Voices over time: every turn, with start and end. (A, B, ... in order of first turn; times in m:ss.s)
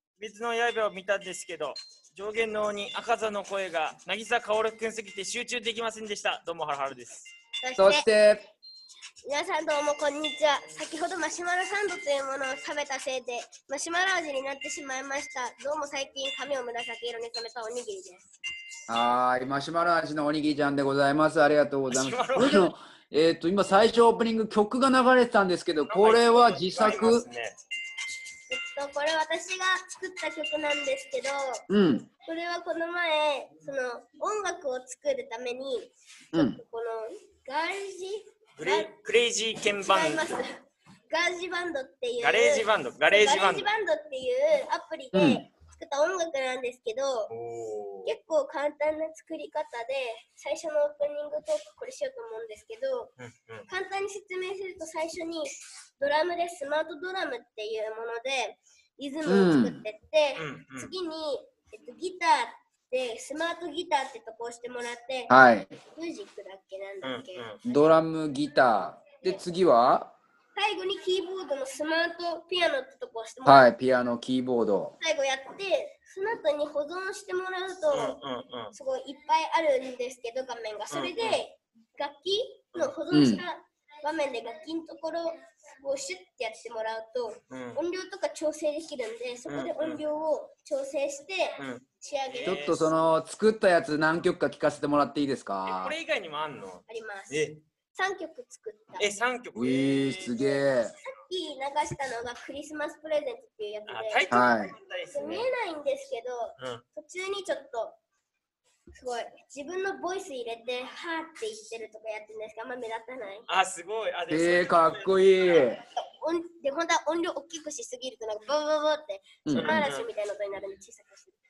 0:00.2-0:07.3 A
0:07.6-0:08.0 B
0:07.8-0:08.5 C
0:09.2-0:18.3 B
0:18.9-0:27.2 C
0:21.9-0:22.7 A
0:25.9-0:27.6 A
0:28.5-0:31.6 B
0:31.7-0:32.1 C
0:32.2-0:38.9 B
0:36.3-0:36.6 C
0:38.6-0:40.4 A
0:39.8-0:47.3 B
0:42.2-0:43.7 A
0:45.1-0:45.4 C
0:47.3-0:48.1 A
0:48.0-0:53.1 B
0:53.2-0:53.7 A
0:53.7-1:05.4 B
0:59.2-0:59.8 C
1:00.4-1:00.9 A
1:05.3-1:05.7 C
1:05.9-1:07.8 B
1:07.0-1:07.6 A
1:07.6-1:10.1 C
1:10.5-1:13.7 B
1:13.4-1:14.9 C
1:15.0-1:18.2 B
1:17.9-1:18.7 A
1:18.7-1:32.7 B
1:20.9-1:21.4 A
1:23.1-1:23.4 C
1:27.5-1:27.8 A
1:29.5-1:30.0 A
1:31.6-1:32.9 A
1:32.4-1:35.9 C
1:35.6-1:37.6 A
1:36.9-1:39.1 B
1:39.0-1:40.6 A
1:39.5-1:40.9 C
1:41.0-1:44.4 B
1:43.9-1:45.5 A
1:44.3-1:44.7 C
1:45.1-1:48.0 B
1:46.6-1:46.8 A
1:49.0-1:53.5 B
1:53.5-1:55.8 A
1:54.3-1:55.8 C
1:55.9-2:01.4 B
1:59.4-1:59.8 C
1:59.5-2:00.1 A